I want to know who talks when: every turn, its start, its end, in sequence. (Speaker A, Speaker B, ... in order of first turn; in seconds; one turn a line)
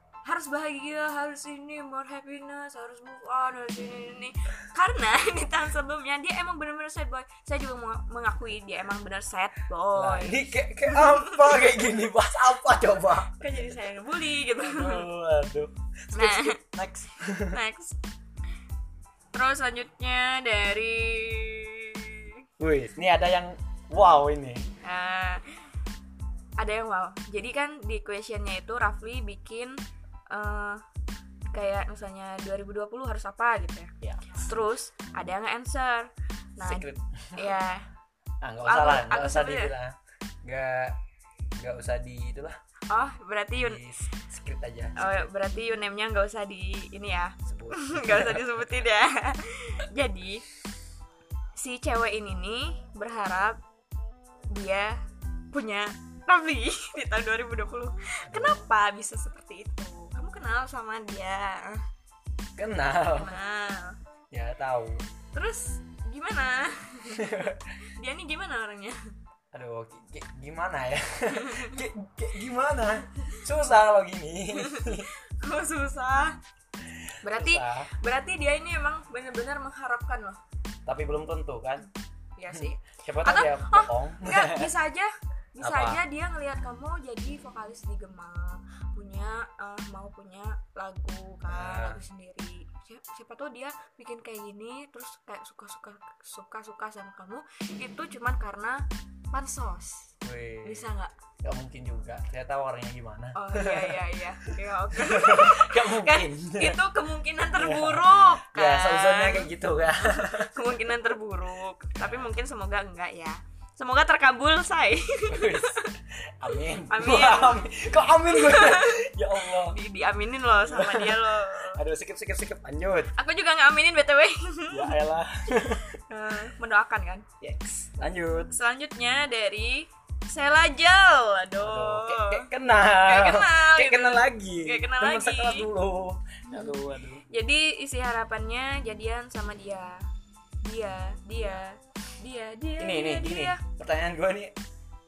Speaker A: 0.3-11.7
Speaker B: 9.9-13.4
Speaker A: 13.3-15.1
Speaker B: 14.6-17.6
Speaker A: 16.1-16.6
Speaker A: 17.5-18.0
Speaker A: 19.3-22.4
Speaker B: 22.6-24.7
Speaker A: 24.8-25.6
Speaker A: 26.6-29.8
Speaker A: 30.3-30.8
Speaker A: 31.5-37.9
Speaker B: 34.0-34.3
Speaker B: 36.6-37.5
Speaker B: 38.4-41.0
Speaker A: 38.6-39.8
Speaker B: 41.6-42.6
Speaker A: 42.9-43.8
Speaker B: 43.5-45.3
Speaker A: 45.0-50.5
Speaker B: 47.5-48.6
Speaker A: 51.6-53.6
Speaker A: 54.5-55.0
Speaker A: 55.5-61.8
Speaker B: 58.3-58.6
Speaker B: 62.6-63.3
Speaker A: 63.1-64.0
Speaker B: 64.3-65.1
Speaker A: 65.3-67.3
Speaker B: 67.2-67.6
Speaker A: 67.9-69.0
Speaker B: 69.5-75.1
Speaker A: 71.3-71.8
Speaker A: 74.5-76.4
Speaker A: 77.2-80.4
Speaker B: 77.2-77.9
Speaker B: 80.9-81.9
Speaker A: 82.4-100.1
Speaker B: 82.5-84.7
Speaker B: 85.6-86.0
Speaker B: 91.5-92.0
Speaker B: 100.2-106.8
Speaker A: 100.6-101.1
Speaker A: 103.3-116.0
Speaker B: 107.5-110.7
Speaker B: 112.0-112.3
Speaker B: 115.3-119.8
Speaker A: 116.7-117.7
Speaker A: 118.3-121.8
Speaker B: 120.6-123.1
Speaker A: 123.2-125.0
Speaker B: 124.7-126.0
Speaker A: 126.1-127.2
Speaker B: 127.4-128.6
Speaker A: 128.5-135.7
Speaker B: 131.6-137.2
Speaker A: 137.3-140.1
Speaker A: 140.6-143.6
Speaker B: 142.8-144.6